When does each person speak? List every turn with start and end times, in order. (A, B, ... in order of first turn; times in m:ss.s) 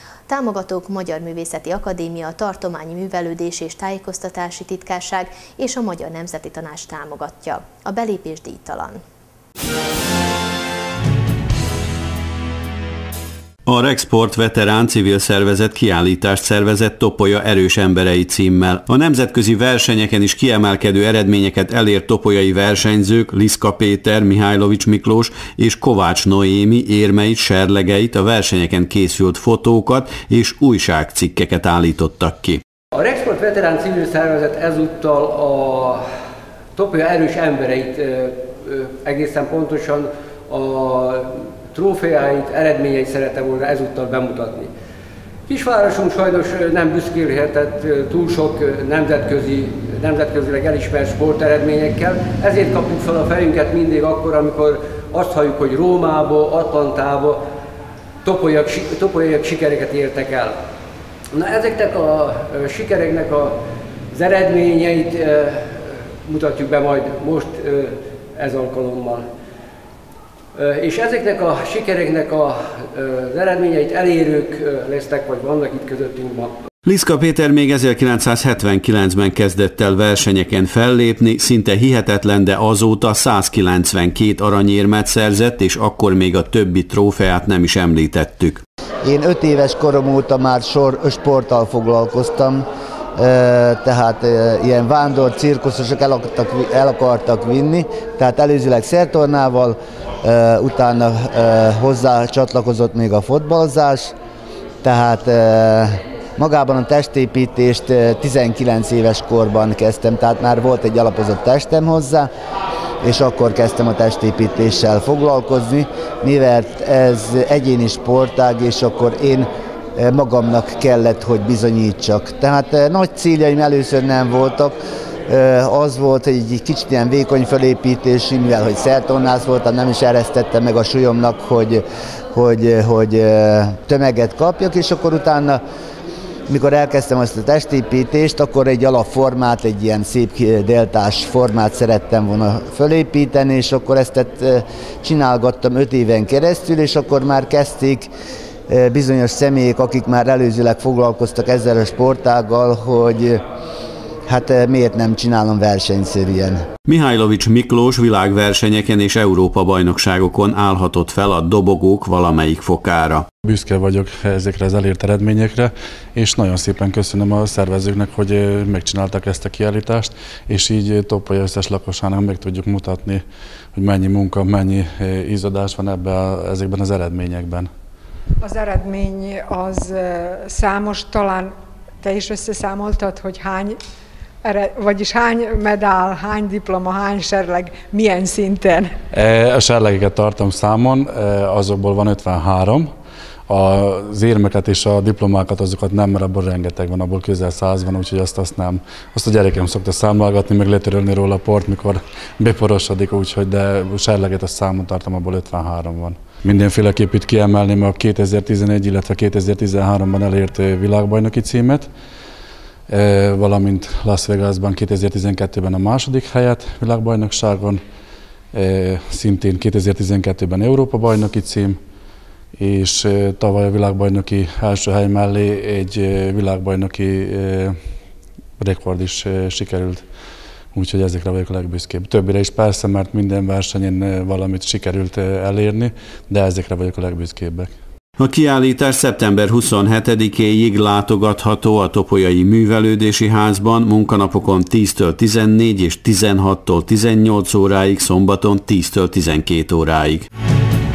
0:00.3-0:09.0 A
0:13.6-0:32.6 B
0:33.0-0:36.0 C
0:36.8-0:44.7 C
0:45.5-0:57.3 C
0:58.2-1:00.6 C
1:01.4-1:03.5 C
1:04.1-1:05.6 C
1:06.3-1:09.2 C
1:10.6-1:16.5 C
1:16.8-1:28.6 B
1:29.0-1:32.6 D
1:33.2-1:44.1 D
1:44.8-1:52.3 D
1:53.0-2:04.8 D
2:05.3-2:15.6 D
2:16.5-2:28.1 D
2:28.7-2:33.4 D
2:34.3-2:36.6 D
2:36.8-2:43.2 B
2:43.4-2:53.2 E
2:53.8-2:57.7 E
2:58.4-3:03.8 F
3:04.4-3:08.9 F
3:09.1-3:12.9 E
3:13.5-3:31.9 E
3:32.9-3:37.8 E
3:38.5-3:41.8 E
3:42.6-3:47.8 E
3:48.6-3:50.0 E
3:50.7-3:57.7 E
3:58.2-4:10.3 B